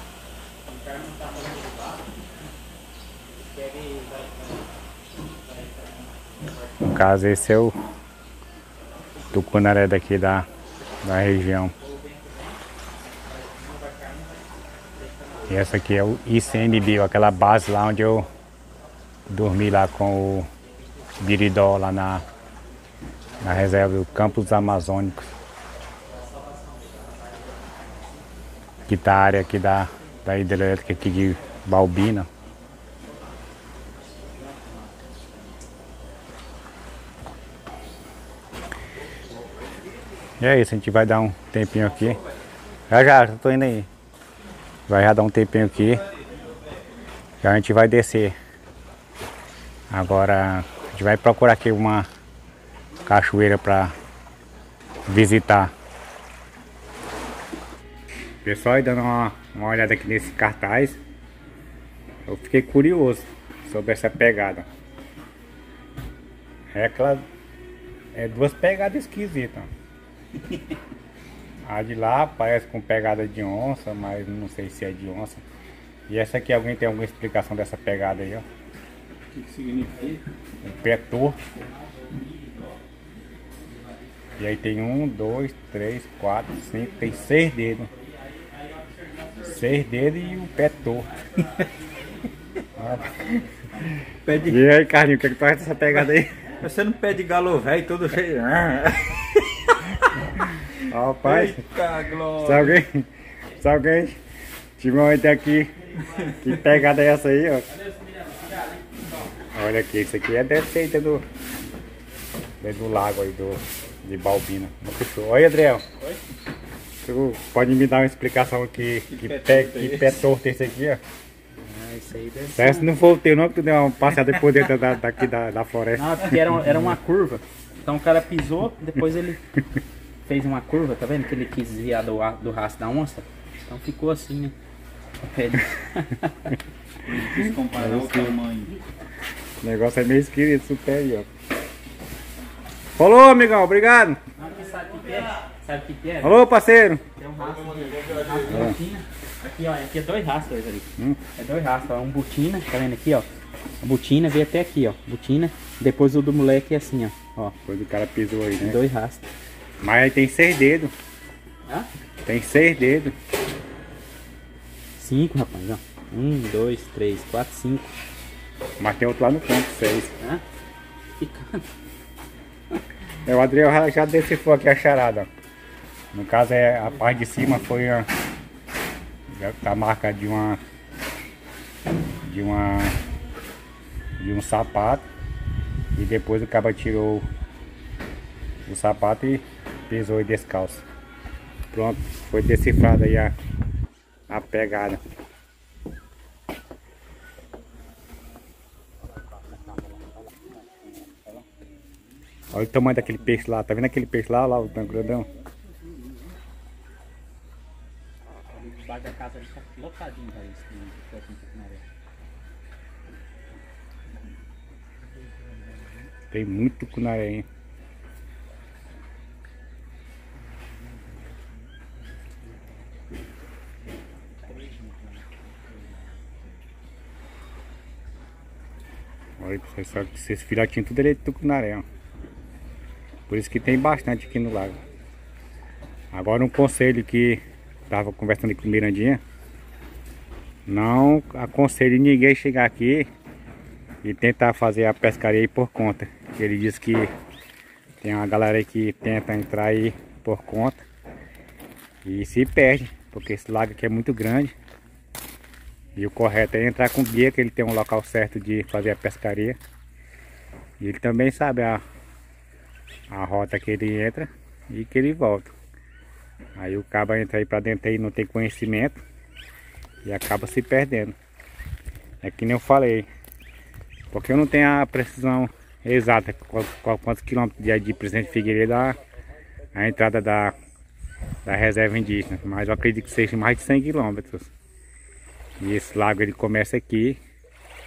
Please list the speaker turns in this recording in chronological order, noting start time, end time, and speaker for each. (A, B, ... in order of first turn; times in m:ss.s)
0:00.6-0:02.1 A
0:03.3-0:06.8 A
0:06.8-0:07.8 B
0:09.3-0:10.5 B
0:11.0-0:11.7 B
0:11.8-0:12.6 A
0:13.2-0:15.7 A
0:15.5-0:18.3 B
0:19.3-0:20.5 B
0:21.2-0:22.2 B
0:23.4-0:25.3 B
0:28.9-0:32.3 B
0:40.4-0:42.2 B
0:42.9-0:43.9 B
0:44.9-0:46.0 B
0:47.4-0:48.4 B
0:49.9-0:52.1 B
0:53.0-0:53.9 B
0:55.1-0:55.7 B
0:58.4-1:01.0 B
1:02.2-1:04.7 B
1:06.7-1:07.2 B
1:08.1-1:09.7 B
1:11.6-1:15.4 B
1:16.1-1:18.4 B
1:19.3-1:20.2 C
1:20.6-1:21.4 B
1:24.4-1:27.9 B
1:29.4-1:31.1 B
1:32.8-1:33.4 B
1:34.2-1:34.6 C
1:34.5-1:36.4 B
1:36.6-1:40.4 C
1:40.9-1:41.6 B
1:41.2-1:42.8 C
1:42.4-1:43.1 B
1:43.6-1:44.2 B
1:44.8-1:45.7 B
1:46.3-1:47.7 B
1:47.7-1:49.2 A
1:49.5-1:51.2 B
1:52.6-1:55.8 B
1:57.0-2:01.0 B
1:59.1-2:00.3 C
2:01.6-2:02.9 A
2:02.6-2:06.3 B
2:06.0-2:09.4 A
2:10.2-2:14.5 A
2:15.3-2:16.5 A
2:17.0-2:18.8 C
2:17.8-2:18.3 B
2:19.6-2:21.3 B
2:23.0-2:24.2 B
2:24.4-2:26.4 A
2:26.2-2:27.0 B
2:27.2-2:33.3 A
2:33.8-2:37.5 A
2:37.6-2:38.8 B
2:38.6-2:39.2 A
2:39.8-2:40.9 B
2:42.2-2:43.1 B
2:45.0-2:47.9 A
2:48.8-2:50.1 B
2:51.2-2:51.6 A
2:53.2-2:55.3 B
2:56.1-2:58.1 B
2:59.3-3:00.6 B
3:02.2-3:03.0 B
3:04.2-3:05.0 B
3:05.9-3:07.3 B
3:08.6-3:10.8 B
3:11.7-3:13.4 B
3:14.3-3:15.0 B
3:22.5-3:25.3 B
3:28.5-3:31.8 A
3:36.3-3:37.5 B
3:44.6-3:44.9 A
3:49.4-3:51.8 B
3:53.3-3:54.8 B
3:56.1-3:59.2 B
4:00.7-4:03.1 B
4:04.0-4:07.1 B
4:08.0-4:10.8 B
4:12.0-4:14.5 B
4:16.0-4:19.6 B
4:20.8-4:21.8 B
4:23.1-4:25.5 B
4:26.6-4:29.0 B
4:30.0-4:31.2 B
4:32.2-4:33.1 B
4:34.1-4:39.0 B
4:39.7-4:40.6 B
4:41.4-4:44.5 B
4:45.6-4:47.2 B